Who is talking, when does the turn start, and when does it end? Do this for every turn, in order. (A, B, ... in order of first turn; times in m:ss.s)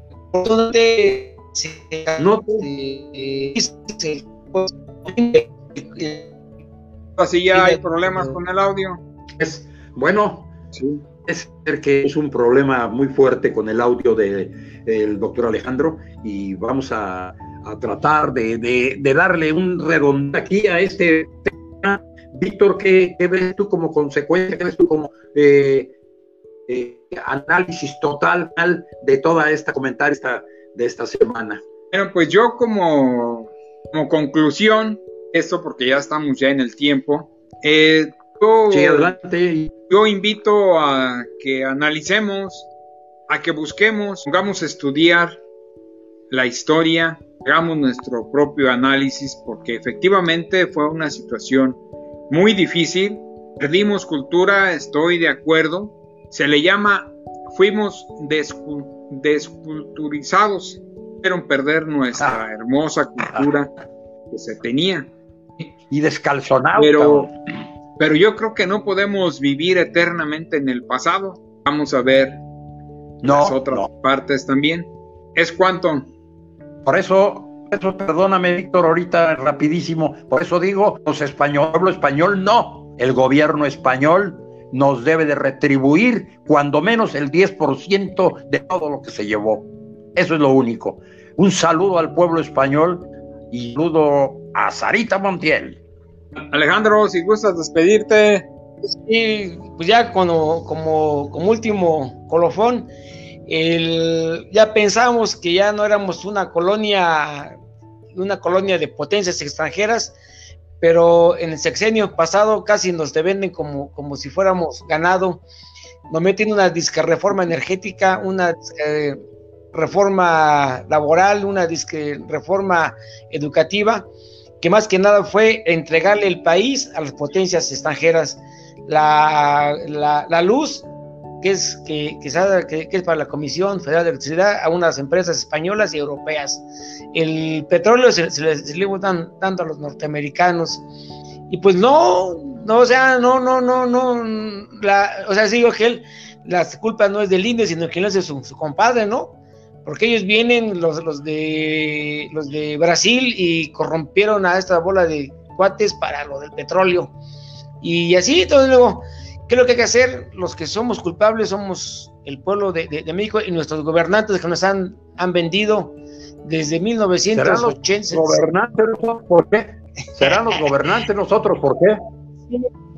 0:00.3-0:06.3 A
0:02.2-0:02.7 B
0:07.2-0:09.0 C
0:07.5-0:08.4 A
0:09.4-0:10.5 B
0:10.7-0:11.0 C
0:11.3-0:26.0 B
0:26.7-0:31.6 B
0:31.9-0:39.2 C
0:38.7-0:39.7 B
0:39.9-0:42.7 C
0:43.3-0:45.4 C
0:46.3-1:03.7 C
1:03.2-1:03.5 B
1:04.3-1:05.1 C
1:05.9-1:07.3 B
1:06.8-1:07.3 C
1:08.0-1:12.4 C
1:13.2-1:16.1 C
1:13.2-1:13.9 B
1:16.8-1:35.8 B
1:36.4-1:38.5 C
1:38.8-1:42.9 A
1:43.5-1:47.6 A
1:48.1-1:50.2 A
1:50.8-1:55.4 A
1:56.1-2:04.1 A
2:04.6-2:10.9 A
2:11.4-2:20.8 A
2:21.5-2:37.1 A
2:37.8-2:48.4 A
2:47.3-2:52.0 B